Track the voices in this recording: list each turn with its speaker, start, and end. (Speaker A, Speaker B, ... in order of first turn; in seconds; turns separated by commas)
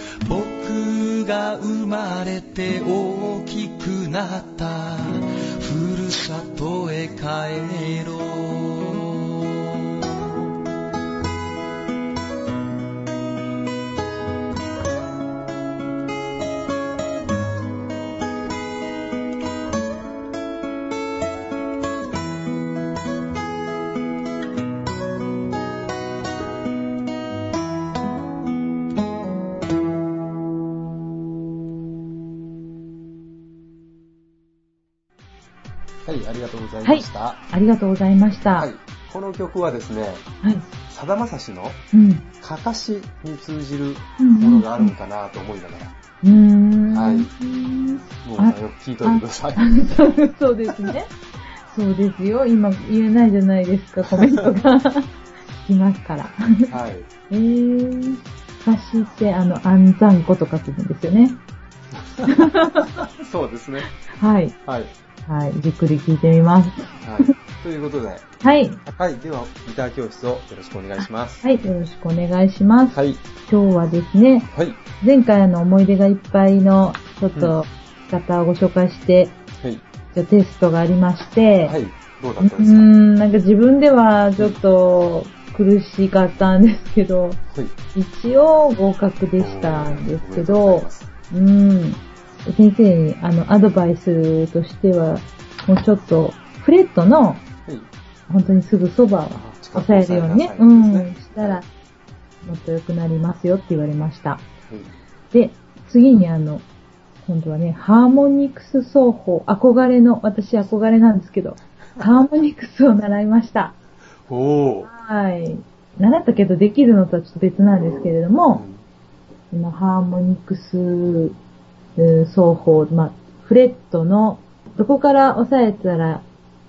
Speaker A: 0.2-10.3, Speaker B: 36.0-37.4, Speaker C: 36.8-38.7, Speaker B: 38.5-40.2, Speaker C: 40.4-40.7, Speaker B: 40.9-41.8, Speaker C: 41.9-42.3, Speaker B: 42.4-45.9, Speaker C: 44.2-44.9, Speaker C: 46.2-51.1, Speaker B: 46.9-47.3, Speaker B: 48.2-50.1, Speaker C: 51.7-56.7, Speaker B: 54.1-54.4, Speaker B: 56.7-57.1, Speaker C: 57.3-61.4, Speaker B: 62.0-63.9, Speaker C: 62.2-62.9, Speaker C: 64.1-64.5, Speaker B: 64.7-64.9, Speaker C: 65.3-67.3, Speaker B: 67.0-68.2, Speaker C: 68.4-68.8, Speaker B: 68.8-71.4, Speaker C: 71.4-74.5, Speaker B: 72.9-73.2, Speaker B: 74.5-74.8, Speaker C: 75.0-79.3, Speaker B: 79.6-79.8, Speaker C: 80.1-81.8, Speaker B: 81.7-82.9, Speaker C: 82.4-87.4, Speaker C: 87.9-97.4, Speaker B: 89.4-91.1, Speaker C: 98.3-101.7, Speaker B: 99.3-101.6, Speaker C: 102.4-104.4, Speaker B: 104.7-104.9, Speaker C: 105.3-106.6, Speaker C: 107.2-113.7, Speaker B: 114.3-114.9, Speaker C: 114.8-118.6, Speaker B: 118.5-118.8, Speaker C: 119.5-121.3, Speaker C: 122.0-126.2